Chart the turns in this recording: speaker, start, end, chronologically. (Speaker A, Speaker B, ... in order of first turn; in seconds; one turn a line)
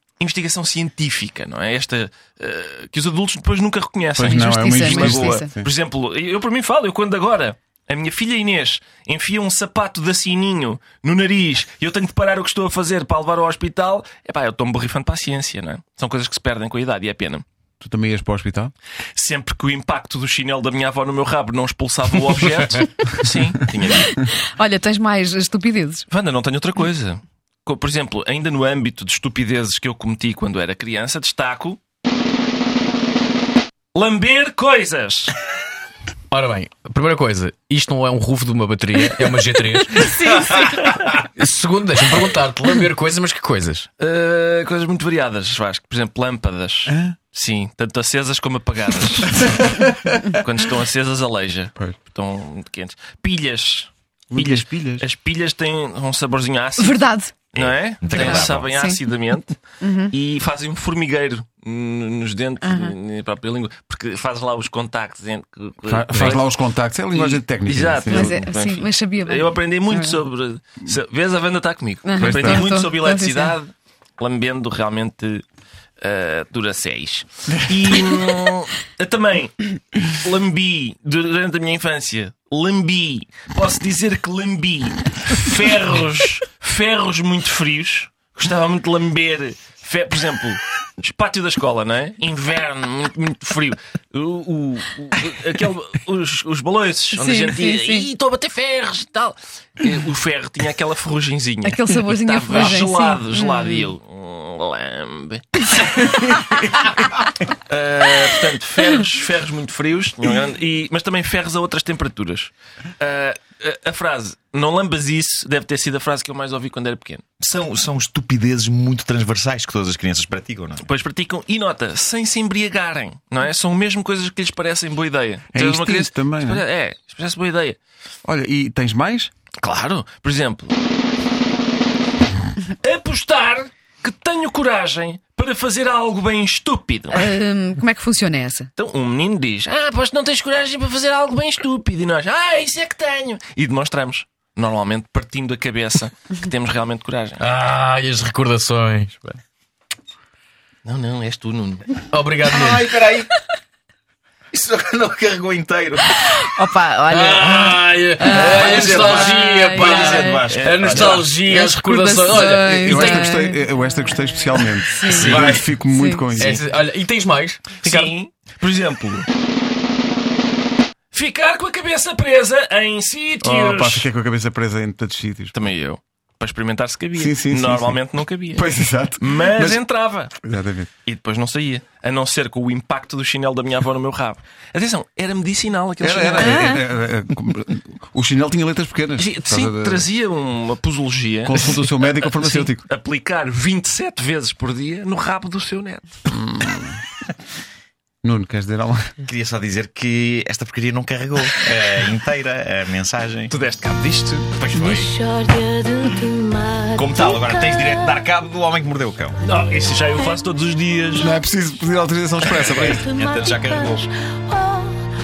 Speaker A: 0.2-17.4
Speaker B: 4.2-5.7
Speaker C: 4.5-5.4
Speaker B: 17.8-18.7
Speaker A: 19.1-24.2
Speaker D: 24.5-26.1
Speaker A: 26.1-31.8
Speaker A: 33.9-35.4
Speaker C: 36.3-43.9
Speaker A: 40.4-41.1
Speaker A: 44.0-49.7
Speaker B: 46.9-47.1
Speaker B: 49.3-50.4
Speaker A: 50.3-66.5
Speaker B: 54.3-55.0
Speaker D: 56.8-57.3
Speaker E: 57.5-58.8
Speaker D: 58.2-59.0
Speaker B: 65.8-68.4
Speaker A: 67.1-75.4
Speaker C: 68.1-69.9
Speaker D: 68.1-69.3
Speaker C: 72.0-73.5
Speaker B: 72.2-72.7
Speaker A: 76.0-106.9
Speaker C: 97.2-98.0
Speaker C: 101.6-103.9
Speaker A: 107.7-117.2
Speaker E: 117.4-120.8
Speaker A: 120.8-127.8
Speaker B: 125.5-126.6
Speaker B: 128.2-129.3
Speaker A: 129.6-130.8
Speaker A: 132.7-137.3
Speaker D: 137.2-138.7
Speaker A: 138.8-147.5
Speaker C: 147.4-149.4
Speaker A: 150.8-152.0
Speaker C: 152.1-152.9
Speaker E: 152.5-153.3
Speaker E: 154.5-156.3
Speaker D: 156.5-157.4
Speaker C: 157.0-163.6
Speaker E: 158.2-161.3
Speaker A: 158.7-159.3
Speaker D: 159.3-159.9
Speaker A: 160.5-161.4
Speaker D: 162.0-163.5
Speaker B: 162.3-166.7
Speaker C: 165.0-168.1
Speaker E: 165.1-165.4
Speaker A: 167.8-169.3
Speaker A: 171.1-174.1
Speaker B: 173.4-175.5
Speaker A: 175.5-180.3
Speaker B: 177.1-178.0
Speaker B: 178.5-179.8
Speaker B: 180.4-180.9
Speaker A: 181.1-186.8
Speaker B: 186.0-190.1
Speaker A: 189.2-196.2
Speaker B: 191.5-192.8
Speaker B: 196.3-197.0
Speaker B: 198.2-199.2
Speaker E: 199.2-203.5
Speaker A: 203.5-204.5
Speaker E: 204.6-205.1
Speaker F: 204.7-208.2
Speaker E: 206.9-209.4
Speaker A: 209.4-211.3
Speaker B: 211.2-213.1
Speaker E: 212.5-214.1
Speaker F: 212.7-215.1